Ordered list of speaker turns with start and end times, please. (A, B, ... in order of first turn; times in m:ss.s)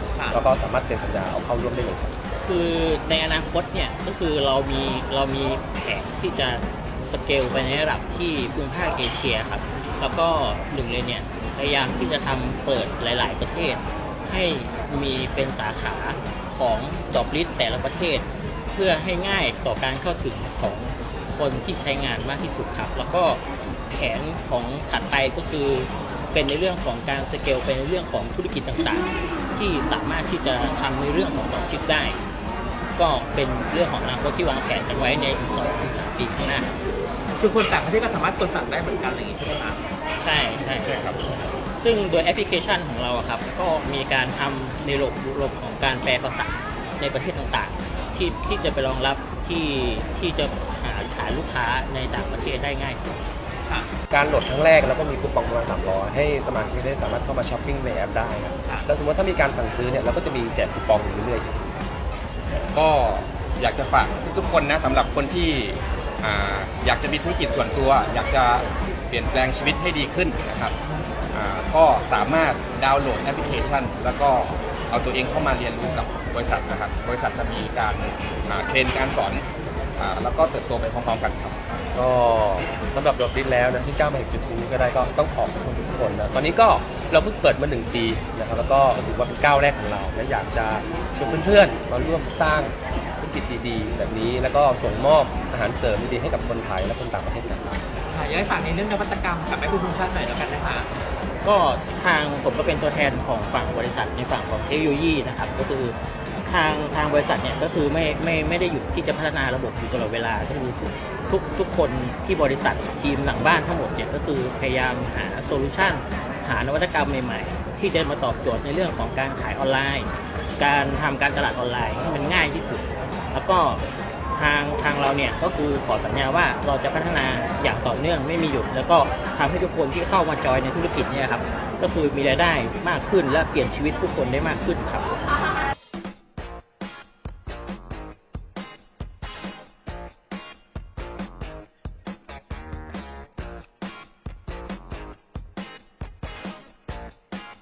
0:00.2-0:00.4 A
0:00.3-0:02.2 B
0:02.4-0:32.2 C
0:33.0-0:36.7 C
0:37.4-0:39.8 A
0:40.2-0:53.2 C
0:40.8-0:41.2 D
0:54.1-1:01.6 B
1:02.7-1:10.8 D
1:11.3-1:19.5 D
1:20.0-1:21.7 D
1:21.9-1:37.8 B
1:38.1-1:40.9 A
1:41.4-2:15.3 C